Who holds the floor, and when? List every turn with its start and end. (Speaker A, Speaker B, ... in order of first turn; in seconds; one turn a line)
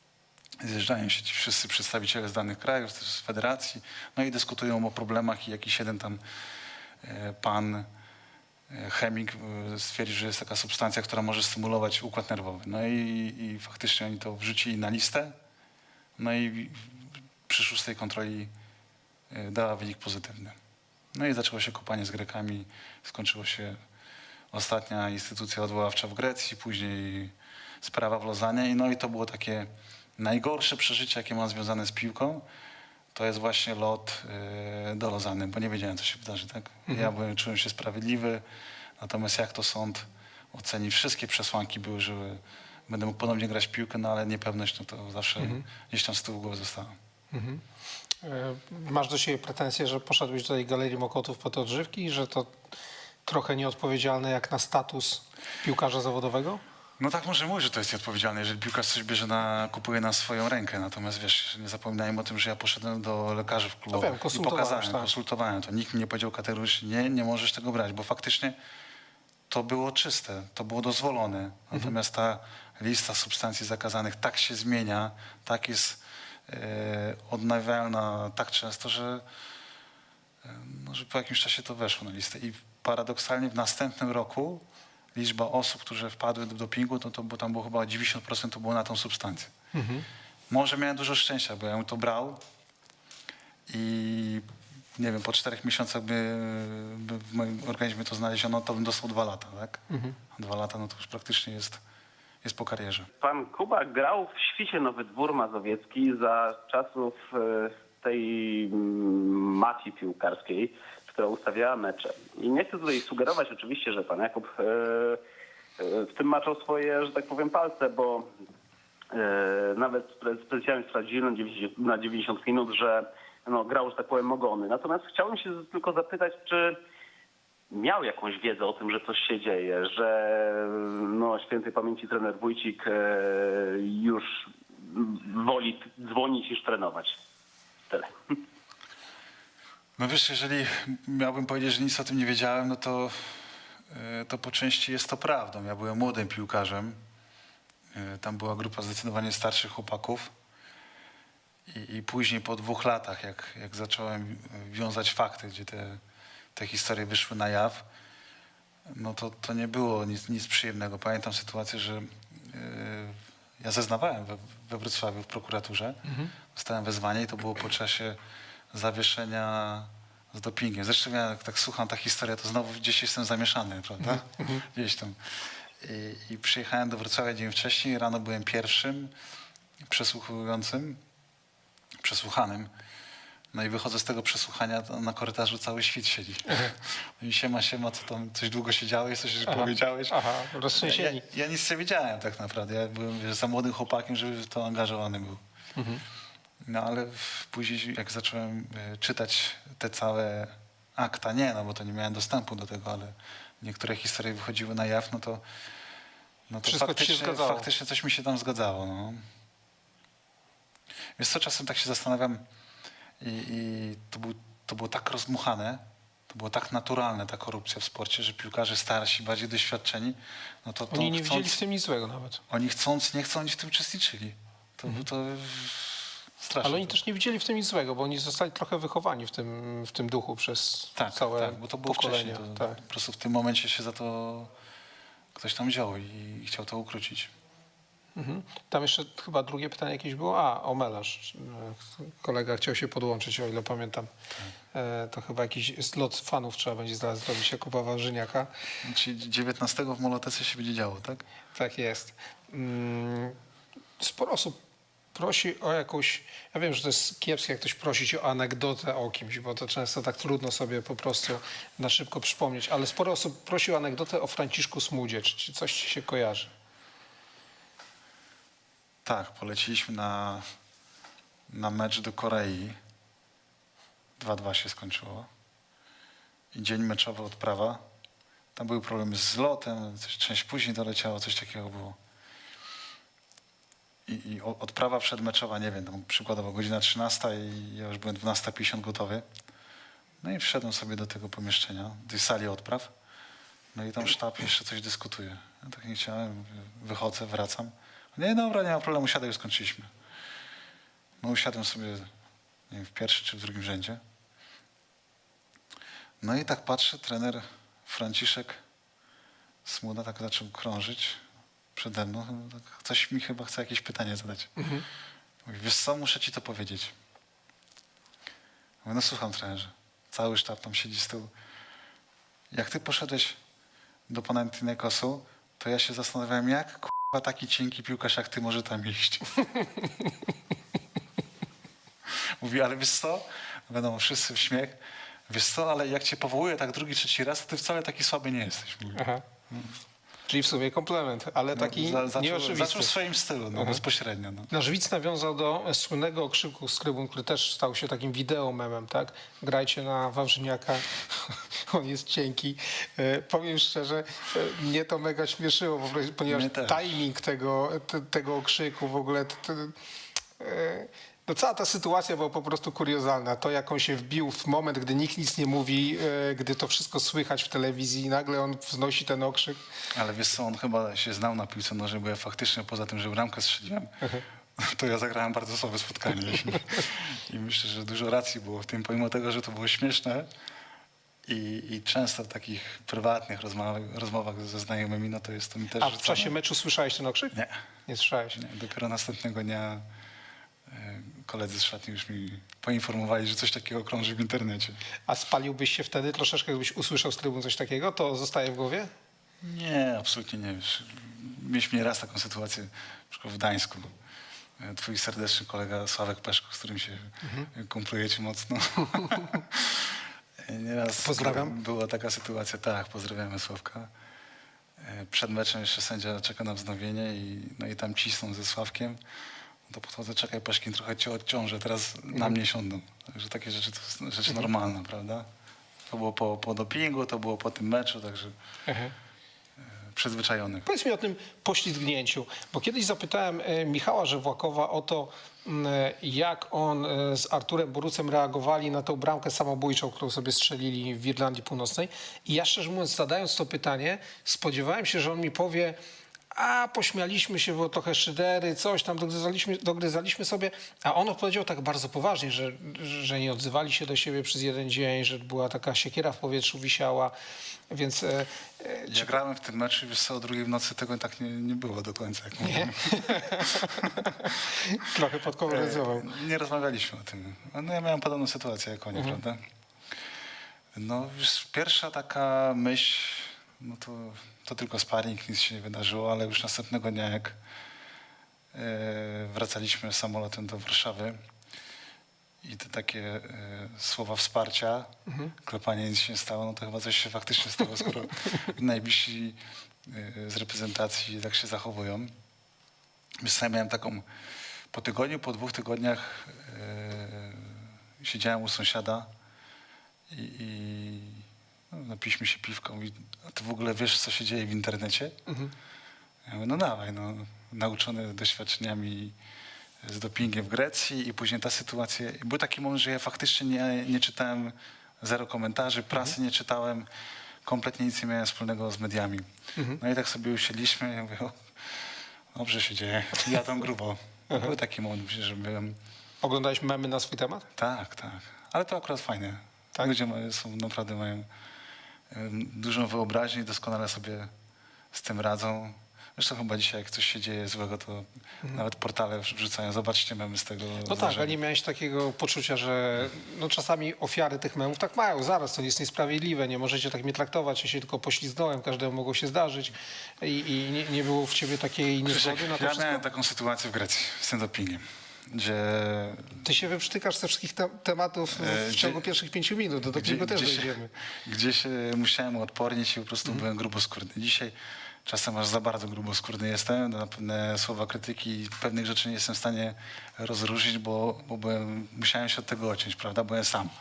Speaker A: 0.6-6.2
Speaker A: 7.0-7.9
Speaker A: 8.7-15.3
Speaker A: 16.2-18.5
Speaker A: 19.3-20.6
Speaker A: 21.1-23.8
Speaker A: 24.5-32.4
Speaker A: 33.1-38.4
Speaker A: 39.0-47.0
Speaker B: 45.4-45.6
Speaker B: 47.3-47.6
Speaker B: 48.2-52.5
Speaker B: 53.2-56.6
Speaker A: 57.0-68.5
Speaker B: 63.9-65.1
Speaker A: 69.5-79.2
Speaker A: 80.4-84.6
Speaker A: 85.1-89.5
Speaker B: 89.7-90.1
Speaker A: 90.5-92.4
Speaker A: 93.7-99.8
Speaker B: 99.9-100.2
Speaker A: 100.3-101.8
Speaker A: 102.4-103.1
Speaker C: 103.2-115.2
Speaker C: 115.8-118.3
Speaker C: 119.1-126.8
Speaker C: 127.7-137.2
Speaker A: 140.0-147.0
Speaker A: 147.9-150.3
Speaker A: 151.7-156.0
Speaker A: 156.5-157.8
Speaker A: 158.9-166.0
Speaker B: 166.1-166.3
Speaker A: 166.5-168.2
Speaker A: 168.7-175.2
Speaker B: 174.0-174.6
Speaker A: 175.8-179.1
Speaker A: 179.9-181.0
Speaker A: 182.0-182.7
Speaker A: 183.5-195.4
Speaker B: 189.5-191.2
Speaker B: 195.8-196.0
Speaker A: 196.7-205.4
Speaker A: 206.5-209.2
Speaker B: 206.6-207.7
Speaker A: 211.2-212.4
Speaker A: 213.2-221.6
Speaker B: 220.9-222.4
Speaker A: 222.5-226.9
Speaker B: 226.6-232.8
Speaker A: 230.9-234.5
Speaker A: 235.3-237.3
Speaker B: 238.1-244.1
Speaker B: 244.7-248.5
Speaker A: 248.8-251.2
Speaker B: 251.5-253.3
Speaker B: 254.0-254.6
Speaker B: 255.1-266.5
Speaker A: 269.0-270.4
Speaker A: 271.5-272.8
Speaker A: 274.2-275.3
Speaker A: 276.5-277.8
Speaker A: 278.5-282.0
Speaker A: 284.1-289.2
Speaker A: 290.2-292.9
Speaker A: 293.7-299.9
Speaker A: 301.2-302.1
Speaker A: 302.7-304.0
Speaker A: 306.2-308.6
Speaker A: 309.6-311.2
Speaker A: 311.7-314.5
Speaker B: 314.6-314.8
Speaker A: 315.4-316.9
Speaker A: 318.8-321.3
Speaker A: 322.5-323.4
Speaker A: 324.1-329.3
Speaker A: 332.4-339.7
Speaker B: 338.9-339.2
Speaker B: 340.3-342.9
Speaker A: 341.5-344.5
Speaker B: 343.5-343.8
Speaker B: 344.5-359.7
Speaker A: 356.3-357.0
Speaker B: 360.4-369.6
Speaker A: 369.9-373.9
Speaker A: 374.6-380.3
Speaker A: 381.2-386.3
Speaker B: 385.8-387.3
Speaker B: 387.9-388.4
Speaker A: 388.3-389.8
Speaker A: 390.7-394.8
Speaker B: 395.1-398.9
Speaker A: 399.4-403.9
Speaker A: 404.6-413.9
Speaker B: 407.2-407.5
Speaker B: 411.0-411.6
Speaker A: 414.8-419.0
Speaker A: 419.7-425.3
Speaker A: 425.9-428.3
Speaker B: 428.7-428.9
Speaker A: 429.9-430.6
Speaker B: 430.6-445.8
Speaker B: 446.3-457.1
Speaker B: 457.7-459.1
Speaker A: 458.9-463.4
Speaker B: 462.4-466.1
Speaker A: 465.4-469.4
Speaker A: 470.7-477.4
Speaker A: 478.5-481.2
Speaker A: 482.4-492.1
Speaker A: 493.2-494.0
Speaker A: 494.7-499.1
Speaker A: 500.1-505.2
Speaker B: 505.3-505.5
Speaker A: 506.2-509.1
Speaker A: 509.8-516.9
Speaker A: 517.4-519.3
Speaker A: 519.8-525.8
Speaker B: 524.3-524.5
Speaker B: 526.2-527.5
Speaker A: 527.5-531.3
Speaker A: 532.1-534.3
Speaker A: 534.9-541.4
Speaker B: 540.8-553.0
Speaker A: 552.0-556.4
Speaker B: 556.4-560.9
Speaker A: 558.3-559.0
Speaker A: 559.9-564.5
Speaker A: 565.0-573.7